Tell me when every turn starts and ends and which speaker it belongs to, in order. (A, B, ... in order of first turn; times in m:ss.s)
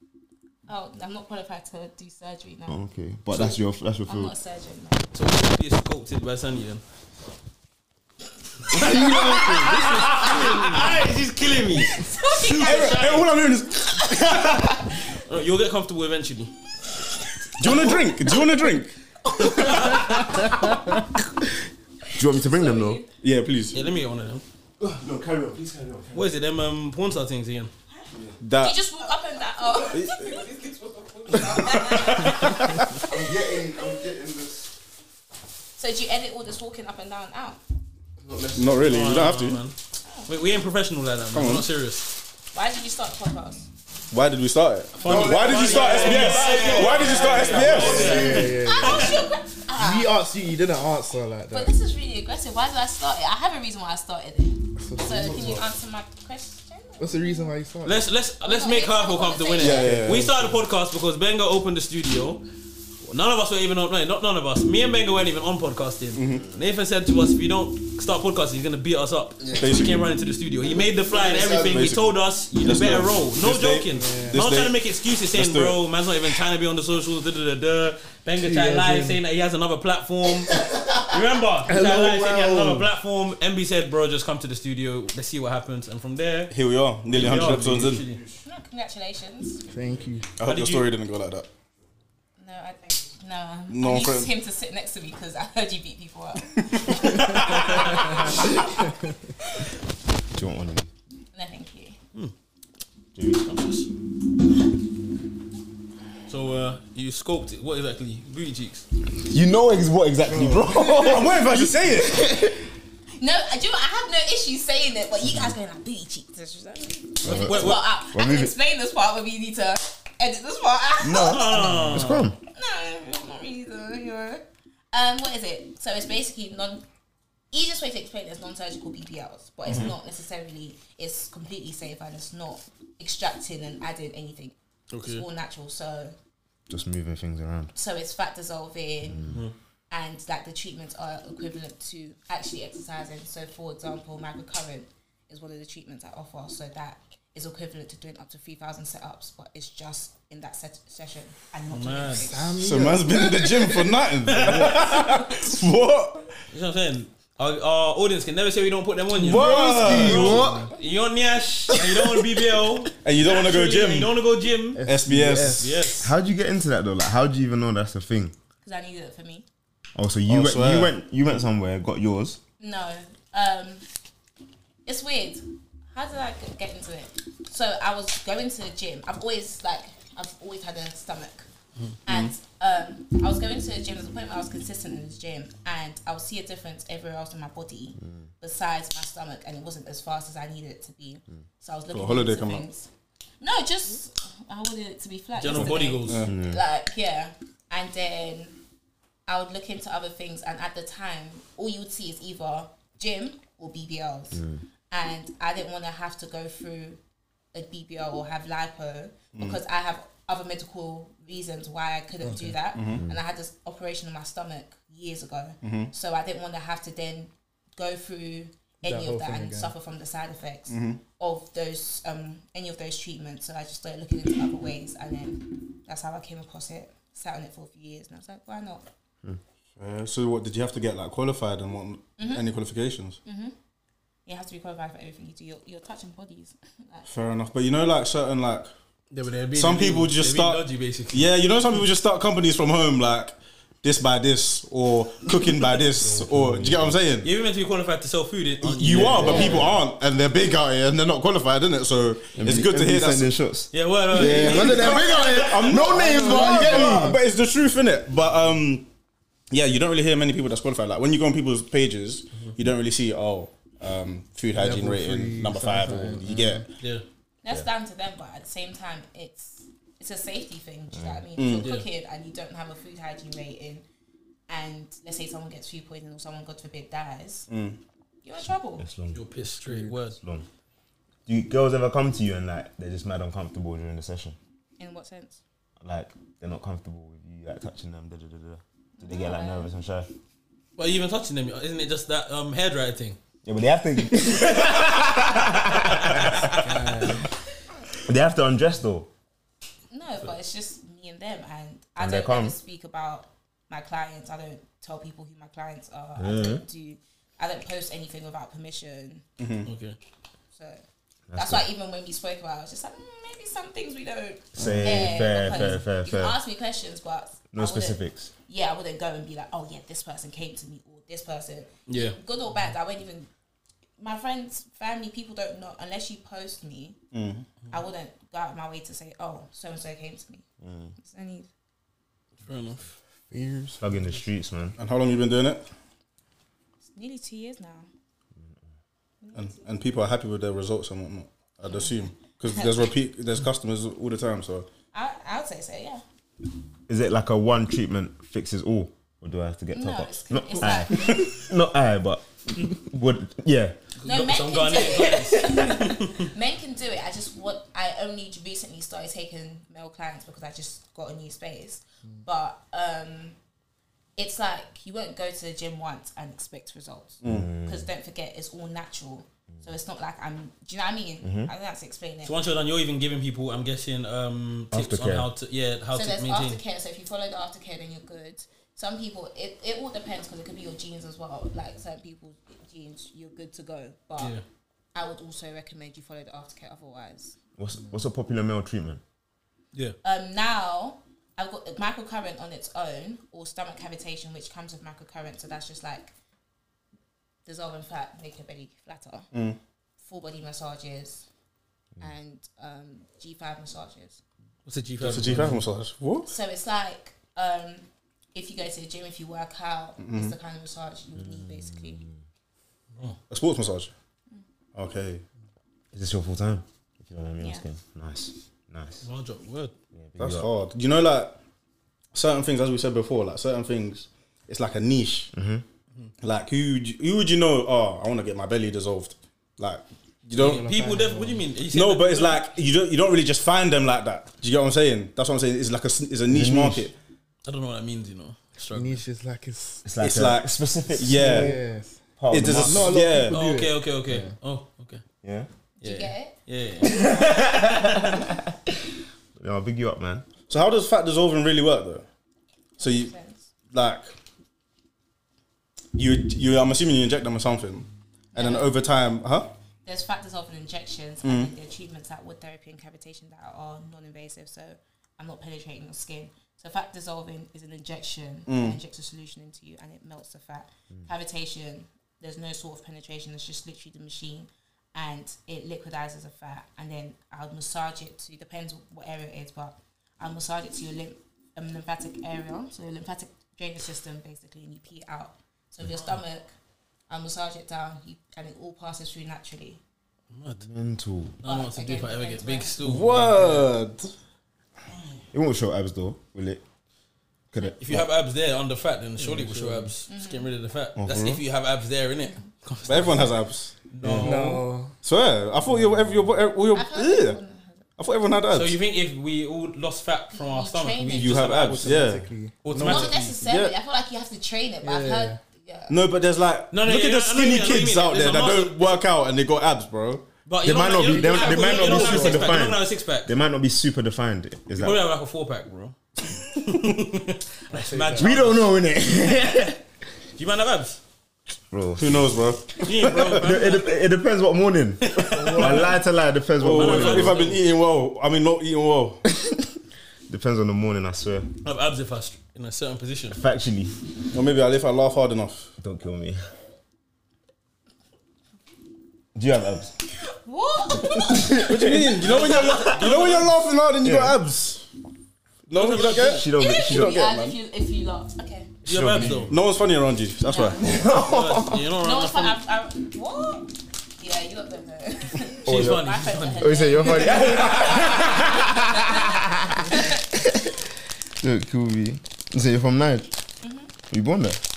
0:00.7-0:02.8 A
0:02.7-0:04.3 B
0:04.1-0:05.1 A
0:05.1-0:06.8 C
0:08.7-0:13.3 C
0:08.7-0:10.4 D
0:08.8-0:09.3 B
0:08.9-0:09.7 E
0:11.9-0:13.0 A
0:12.5-0:14.6 E
0:14.3-0:14.6 C
0:15.1-0:16.5 C
0:17.6-0:18.9 E
0:19.4-0:20.6 C
0:19.7-0:20.0 A
0:22.1-0:23.0 B
0:22.5-0:23.1 A
0:23.2-0:23.8 E
0:23.7-0:24.4 C
0:24.8-0:26.3 B
0:26.1-0:27.7 C
0:28.4-0:28.8 E
0:28.6-0:32.6 A
0:30.0-0:30.4 B
0:31.6-0:32.4 E
0:33.1-0:34.7 B
0:35.8-0:37.6 A
0:38.2-0:39.0 B
0:38.6-0:39.6 E
0:38.9-0:42.2 C
0:40.0-0:40.3 A
0:41.3-0:41.7 E
0:42.5-0:43.7 A
0:44.1-0:48.3 E
0:45.0-0:49.2 C
0:45.0-0:48.5 B
0:46.4-0:49.2 D
0:48.4-0:50.1 A
0:49.7-0:51.7 D
0:51.5-0:57.5 A
0:54.8-0:55.6 D
0:57.0-0:58.1 D
0:57.8-1:02.4 C
0:58.4-1:00.0 A
0:59.6-1:00.5 E
1:03.0-1:26.5 C
1:06.2-1:06.5 E
1:09.5-1:10.1 E
1:10.8-1:11.9 B
1:11.6-1:14.8 E
1:13.9-1:14.4 D
1:15.3-1:15.8 E
1:18.4-1:19.2 D
1:21.7-1:22.9 D
1:26.5-1:28.1 E
1:27.1-1:28.2 C
1:28.4-1:29.6 A
1:29.7-1:30.3 D
1:30.4-1:31.5 E
1:30.4-1:30.9 C
1:32.4-1:38.7 A
1:33.7-1:34.3 E
1:36.8-1:37.4 E
1:40.3-1:40.9 B
1:41.3-1:42.0 A
1:43.2-1:43.5 B
1:43.4-1:43.9 C
1:46.3-1:48.9 C
1:49.2-1:52.6 B
1:50.3-1:50.6 D
1:50.7-1:52.5 E
1:53.2-2:06.8 A
1:57.2-1:57.8 C
1:57.2-1:58.5 B
2:01.0-2:02.4 B
2:01.1-2:02.3 C
2:07.5-2:16.2 A
2:09.7-2:09.9 C
2:14.9-2:15.2 C
2:16.7-2:17.7 B
2:17.8-2:19.4 A
2:19.0-2:19.4 B
2:19.9-2:32.6 A
2:31.7-2:32.3 C
2:32.1-2:34.8 D
2:32.6-2:36.3 E
2:34.3-2:35.0 C
2:36.5-2:44.8 C
2:39.2-2:40.7 D
2:39.2-2:40.4 E
2:39.3-2:40.7 B
2:43.0-2:44.1 E
2:44.8-2:45.8 D
2:44.8-2:45.9 E
2:45.6-2:46.1 C
2:46.0-2:48.3 B
2:48.6-2:49.4 A
2:50.0-2:52.4 B
2:50.3-2:50.9 E
2:52.6-2:53.8 A
2:54.9-3:01.5 A
3:02.1-3:02.3 E
3:02.1-3:12.9 A
3:11.9-3:12.7 E
3:13.4-3:18.6 A
3:15.4-3:16.3 C
3:15.6-3:16.3 E
3:16.3-3:16.6 B
3:19.3-3:27.0 A
3:24.3-3:24.6 B
3:27.5-3:48.8 A
3:29.4-3:29.6 E
3:32.2-3:32.6 D
3:32.7-3:33.0 E
3:35.6-3:35.9 E
3:38.8-3:39.7 D
3:40.7-3:41.0 E
3:49.8-3:53.2 E
3:52.2-3:52.5 A
3:53.2-3:53.5 A
3:54.3-3:57.0 A
3:57.1-3:58.7 E
3:59.1-4:01.3 C
3:59.5-4:07.3 E
4:05.7-4:07.0 B
4:07.2-4:09.7 C
4:08.6-4:13.3 E
4:08.9-4:09.5 B
4:09.3-4:09.6 A
4:12.4-4:17.2 B
4:13.7-4:15.8 C
4:14.2-4:18.9 E
4:14.2-4:17.2 D
4:19.5-4:26.7 E
4:24.5-4:26.7 D
4:27.4-4:33.8 A
4:30.9-4:31.3 B
4:31.4-4:31.7 E
4:34.5-4:37.5 A
4:37.5-4:37.8 E
4:38.2-4:38.8 A
4:38.8-4:39.2 B
4:39.1-4:40.2 C
4:39.6-4:40.0 D
4:40.2-4:40.5 B
4:41.3-4:44.4 B
4:44.8-4:45.4 A
4:45.8-4:50.1 B
4:49.0-4:49.7 A
4:50.8-4:53.2 C
4:53.4-4:56.6 B
4:56.0-4:56.6 C
4:56.6-4:57.3 D
4:58.0-4:59.1 B
4:59.9-5:09.2 A
5:02.0-5:02.6 B
5:06.2-5:06.6 B
5:09.4-5:09.7 E
5:09.7-5:10.0 C
5:10.5-5:10.8 A
5:11.3-5:11.7 B
5:11.4-5:23.3 A
5:14.6-5:16.4 B
5:14.6-5:15.2 D
5:17.5-5:18.3 B
5:21.9-5:22.2 C
5:24.0-5:27.0 A
5:27.1-5:27.5 E
5:27.7-5:30.4 A
5:30.6-5:31.0 B
5:31.0-5:31.5 A
5:32.4-5:32.9 C
5:33.3-5:33.8 D
5:33.8-5:34.8 B
5:34.8-5:35.6 E
5:36.8-5:37.9 A
5:39.2-5:39.7 A
5:39.3-5:44.7 E
5:41.7-5:42.0 A
5:44.9-5:46.0 A
5:46.9-5:53.8 B
5:49.7-5:51.3 A
5:54.0-5:56.3 C
5:54.0-6:03.4 A
6:04.2-6:12.4 A
6:07.2-6:07.5 E
6:07.2-6:07.9 B
6:11.2-6:11.5 B
6:12.2-6:16.6 C
6:14.7-6:15.3 B
6:15.9-6:24.4 A
6:25.0-6:27.4 A
6:27.6-6:29.0 B
6:30.0-6:36.1 A
6:37.5-6:39.3 A
6:39.3-6:39.6 E
6:40.0-6:41.3 A
6:42.0-6:44.2 A
6:44.6-6:45.6 C
6:45.0-6:46.3 E
6:46.3-6:52.0 A
6:50.0-6:50.4 E
6:51.2-6:52.2 B
6:53.3-6:53.9 E
6:54.8-6:55.2 E
6:55.9-6:59.0 B
6:57.4-6:57.7 A
6:59.0-6:59.7 C
7:00.0-7:00.5 B
7:00.2-7:01.4 E
7:02.1-7:05.3 E
7:05.3-7:05.6 B
7:06.2-7:10.7 E
7:10.4-7:12.5 C
7:10.4-7:11.4 D
7:11.7-7:16.9 E
7:16.3-7:16.9 B
7:17.5-7:19.0 C
7:18.7-7:19.9 D
7:19.8-7:21.6 B
7:20.0-7:21.6 E
7:21.0-7:24.3 D
7:22.2-7:23.0 B
7:22.3-7:23.4 E
7:23.3-7:25.0 C
7:25.2-7:25.5 B
7:25.8-7:26.4 A
7:25.8-7:27.0 C
7:26.8-7:28.5 B
7:29.4-7:30.3 B
7:30.5-7:32.0 E
7:32.8-7:33.5 A
7:32.8-7:33.1 E
7:33.7-7:34.1 E
7:36.0-7:39.5 E
7:38.3-7:38.7 A
7:39.8-8:06.5 A
7:41.2-7:41.5 E
7:48.5-7:48.8 E
8:07.1-8:09.8 A
8:10.3-8:10.7 C
8:10.6-8:11.4 B
8:11.4-8:13.7 C
8:11.4-8:12.8 A
8:12.8-8:14.1 E
8:15.3-8:16.6 B
8:17.5-8:18.1 B
8:17.8-8:23.4 C
8:19.2-8:19.9 D
8:20.1-8:20.5 A
8:21.0-8:21.4 B
8:22.8-8:23.7 E
8:23.9-8:24.6 C
8:24.0-8:24.4 B
8:24.2-8:25.0 D
8:25.0-8:27.4 E
8:26.7-8:27.9 A
8:28.0-8:28.8 E
8:28.5-8:32.0 C
8:30.3-8:31.4 A
8:31.1-8:33.8 E
8:31.6-8:33.1 D
8:32.6-8:33.4 C
8:32.8-8:36.0 A
8:34.8-8:35.4 D
8:35.9-8:40.3 E
8:36.7-8:39.0 C
8:40.5-8:43.3 C
8:40.6-8:45.0 B
8:40.9-8:42.6 D
8:44.7-8:48.7 C
8:47.7-8:48.3 D
8:48.2-8:49.8 B
8:50.4-8:51.0 C
8:51.7-8:52.4 B
8:52.0-8:53.2 E
8:52.7-8:54.0 C
8:53.1-8:57.4 B
8:55.0-8:56.0 C
8:55.2-8:56.0 D
8:56.6-8:59.2 E
8:56.7-8:57.6 C
9:00.3-9:01.5 B
9:01.6-9:03.4 C
9:03.3-9:03.9 B
9:04.3-9:05.7 E
9:05.8-9:06.4 B
9:09.4-9:10.0 B
9:10.3-9:11.7 A
9:11.0-9:12.3 B
9:11.5-9:14.9 E
9:12.2-9:13.6 C
9:14.0-9:14.4 B
9:15.7-9:17.6 E
9:15.8-9:16.4 C
9:16.0-9:17.2 B
9:16.4-9:18.7 A
9:18.8-9:19.5 C
9:18.9-9:19.6 B
9:19.2-9:20.9 E
9:20.4-9:20.9 A
9:20.8-9:21.9 B
9:20.8-9:22.6 C
9:22.0-9:30.3 A
9:25.6-9:26.0 B
9:25.6-9:27.4 C
9:26.6-9:30.7 B
9:31.4-9:33.3 B
9:33.6-9:33.9 A
9:34.1-9:34.6 B